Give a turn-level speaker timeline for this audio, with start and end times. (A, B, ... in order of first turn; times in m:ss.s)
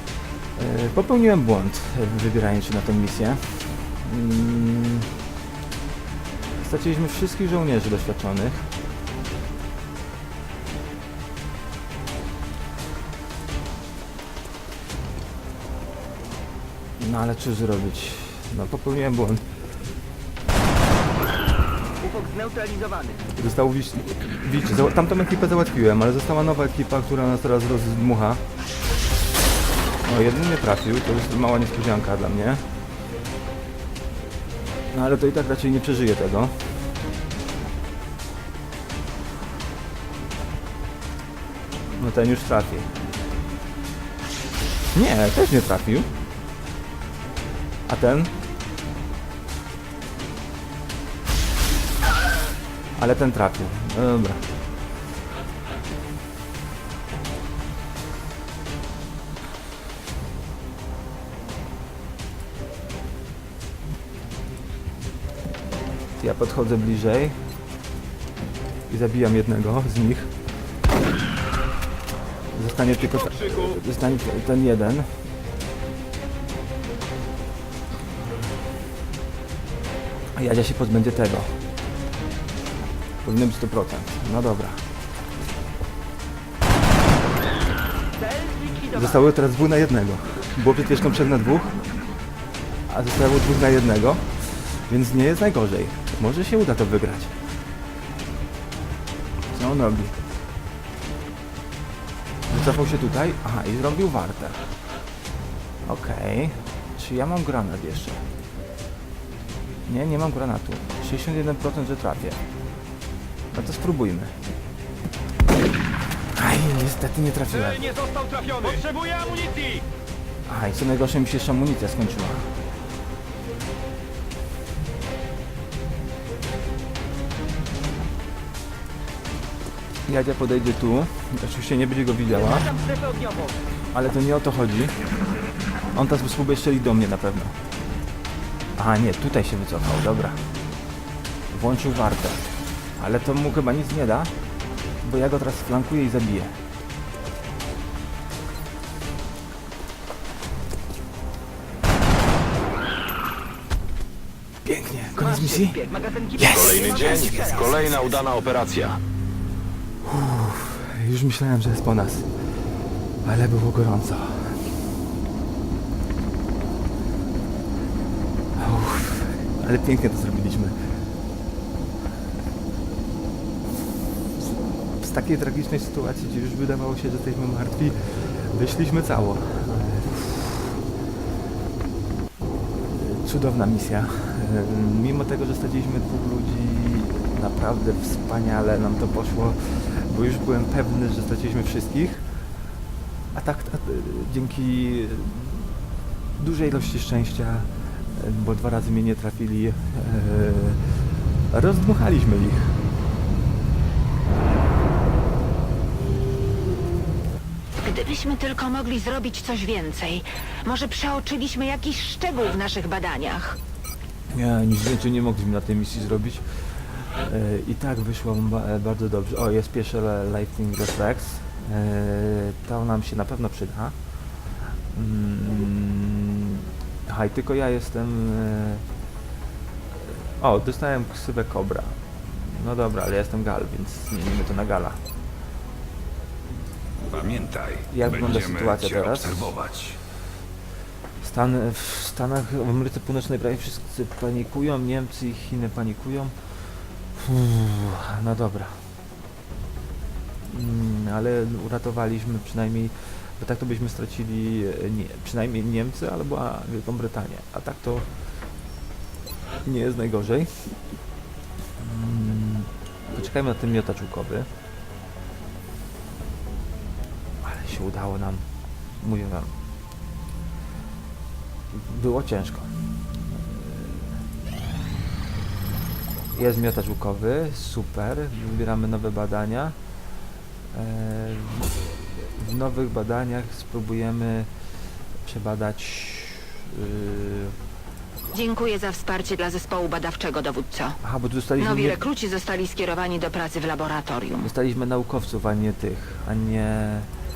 0:00.6-0:05.1 A
0:06.6-0:08.7 A
0:17.0-0:19.4 A
0:22.0-0:23.2 B
0:23.4-0:28.4 A
0:30.0-0:32.7 A
0:34.8-0:36.7 A
0:41.9-0:42.9 A
0:44.9-0:46.1 A
0:47.9-0:48.3 A
0:53.0-0:54.4 A
1:06.2-1:07.4 A
1:08.9-1:10.3 A
1:12.5-1:15.2 A
1:12.8-1:13.8 C
1:20.4-1:21.6 A
1:23.2-1:24.8 A
1:28.1-1:29.3 B
1:28.9-1:31.8 A
1:32.9-1:37.4 A
1:39.5-1:40.2 A
1:42.5-1:44.8 A
1:45.8-1:48.2 A
1:49.9-1:52.4 A
1:53.5-1:54.4 A
1:56.4-1:57.8 A
1:57.5-1:59.8 C
2:00.5-2:02.5 A
2:10.1-2:12.7 A
2:12.3-2:13.6 B
2:13.9-2:15.0 A
2:15.9-2:17.6 A
2:18.8-2:20.4 A
2:21.5-2:22.4 A
2:23.0-2:24.3 A
2:25.0-2:26.6 A
2:34.6-2:35.8 A
2:35.2-2:38.2 B
2:36.4-2:37.4 A
2:36.5-2:39.0 D
2:40.0-2:44.7 A
2:48.6-2:50.8 A
2:55.0-3:00.7 A
3:02.8-3:12.3 A
3:13.3-3:15.7 A
3:16.4-3:20.9 A
3:21.5-3:22.8 A
3:27.8-3:33.6 E
3:34.3-3:44.0 A
3:44.5-3:48.8 A
3:50.0-3:55.0 A
3:57.1-4:00.0 F
3:57.9-3:59.6 A
4:01.2-4:08.9 A
4:10.5-4:18.1 A
4:19.6-4:20.8 A
4:21.8-4:24.5 A
4:27.4-4:28.5 A
4:29.0-4:29.5 A
4:31.7-4:32.7 A
4:33.3-4:34.2 A
4:36.3-4:39.8 A
4:40.7-4:47.6 A
4:48.3-4:51.0 E
4:51.0-4:52.0 A
4:51.6-4:54.4 E
4:54.4-4:57.1 A